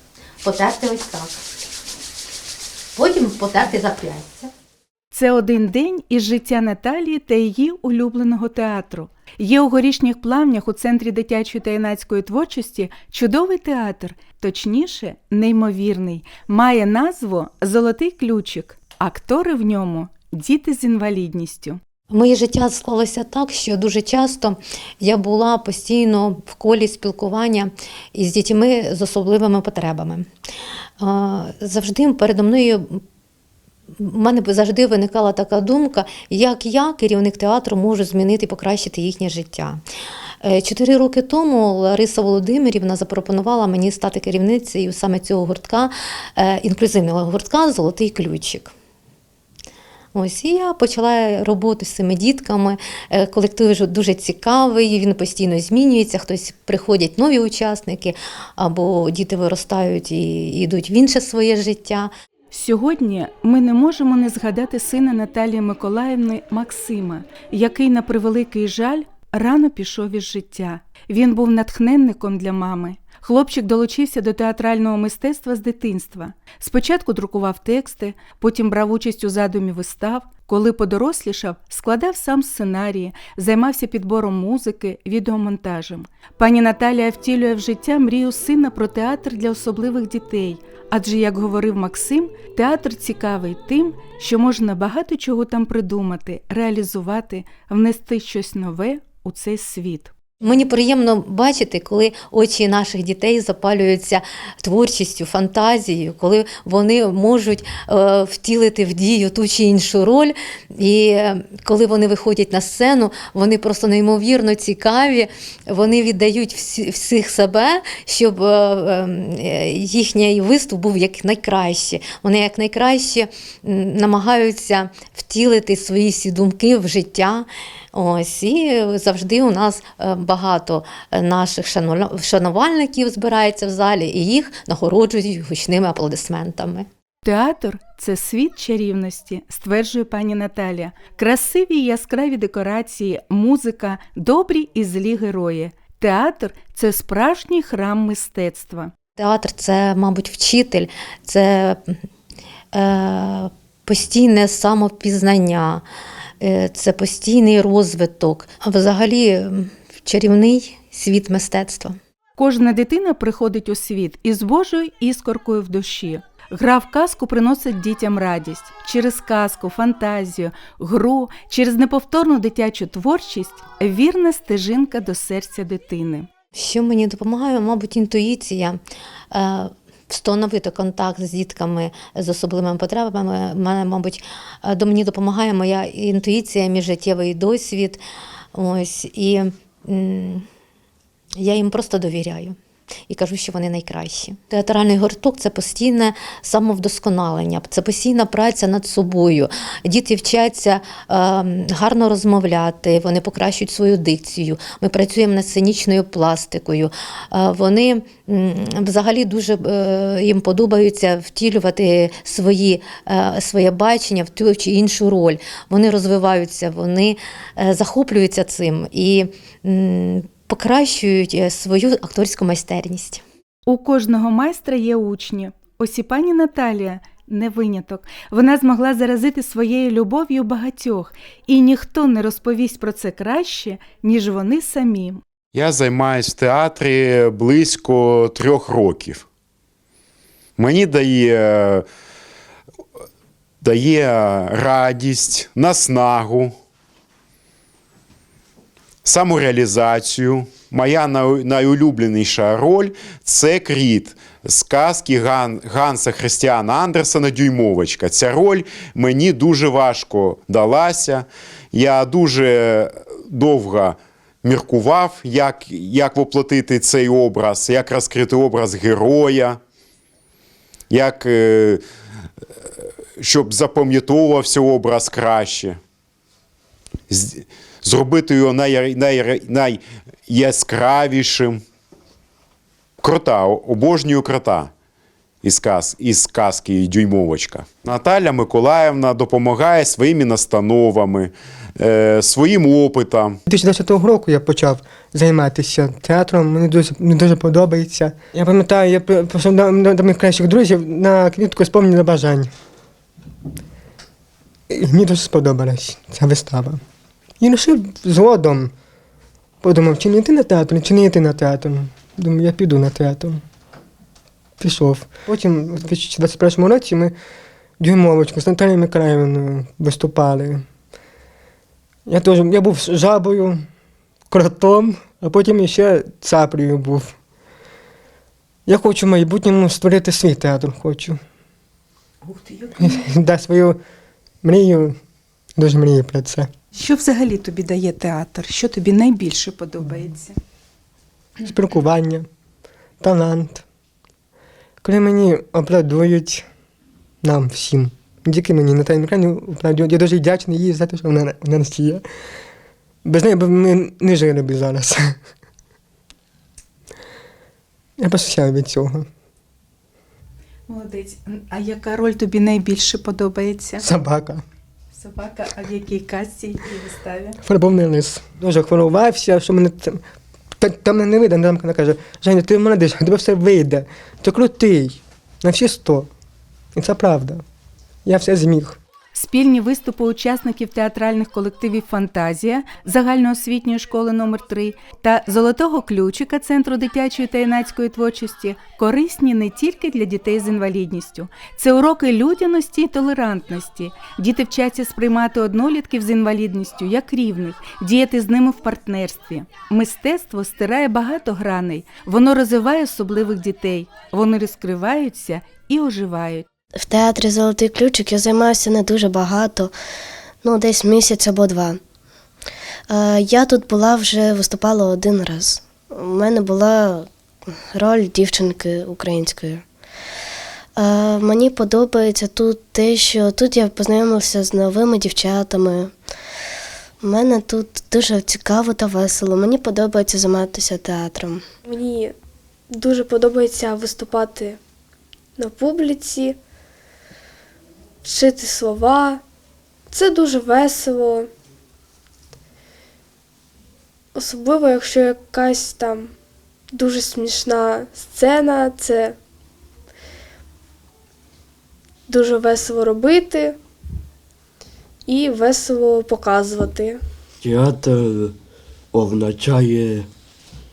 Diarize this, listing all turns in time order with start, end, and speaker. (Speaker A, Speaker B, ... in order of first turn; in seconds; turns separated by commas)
Speaker A: 0.4-1.4, Speaker A: 3.0-4.5, Speaker B: 5.1-21.8, Speaker A: 22.1-30.3, Speaker A: 31.0-33.0, Speaker A: 34.0-39.8, Speaker A: 40.4-48.7, Speaker A: 50.1-62.1, Speaker B: 62.5-100.1, Speaker A: 100.4-136.9, Speaker B: 137.2-148.9, Speaker A: 149.2-152.0, Speaker A: 152.7-155.8, Speaker A: 156.4-162.0, Speaker B: 162.4-176.3, Speaker A: 176.6-178.8, Speaker A: 179.3-188.0, Speaker A: 188.5-190.5, Speaker A: 191.4-192.6, Speaker A: 193.1-223.2, Speaker B: 223.7-235.2, Speaker C: 235.5-239.2, Speaker C: 240.6-241.8, Speaker C: 243.6-246.6, Speaker C: 249.0-269.6, Speaker C: 270.9-271.8, Speaker C: 273.2-275.8, Speaker C: 277.1-281.6, Speaker C: 283.0-284.7, Speaker C: 285.4-293.4, Speaker D: 293.5-302.5, Speaker D: 304.7-306.8, Speaker D: 307.4-308.7, Speaker D: 309.6-313.4, Speaker D: 314.6-317.1, Speaker D: 317.8-320.6, Speaker D: 322.1-323.6, Speaker D: 324.3-327.1, Speaker D: 328.7-331.2, Speaker B: 332.2-333.0, Speaker D: 332.8-333.8, Speaker D: 334.4-334.9, Speaker D: 335.6-336.5, Speaker B: 336.7-340.4, Speaker D: 341.4-342.3, Speaker D: 343.0-343.6, Speaker D: 344.8-346.4, Speaker D: 347.2-352.0, Speaker D: 353.1-355.1, Speaker D: 358.0-359.1, Speaker B: 360.7-363.9, Speaker D: 363.8-364.4, Speaker B: 364.9-367.4, Speaker D: 367.4-370.0, Speaker D: 370.6-376.1, Speaker D: 376.8-377.4, Speaker D: 378.1-378.8, Speaker B: 379.1-406.5, Speaker E: 406.8-409.8, Speaker E: 410.4-411.8, Speaker E: 412.9-419.6, Speaker E: 420.8-425.9, Speaker E: 427.0-431.5, Speaker F: 431.7-432.1, Speaker F: 432.7-434.6, Speaker F: 435.4-436.4, Speaker F: 438.0-439.2, Speaker F: 439.9-441.3, Speaker F: 444.1-446.1, Speaker F: 446.7-449.2, Speaker F: 452.1-453.6, Speaker F: 455.1-457.0, Speaker G: 457.4-458.4, Speaker G: 458.9-460.1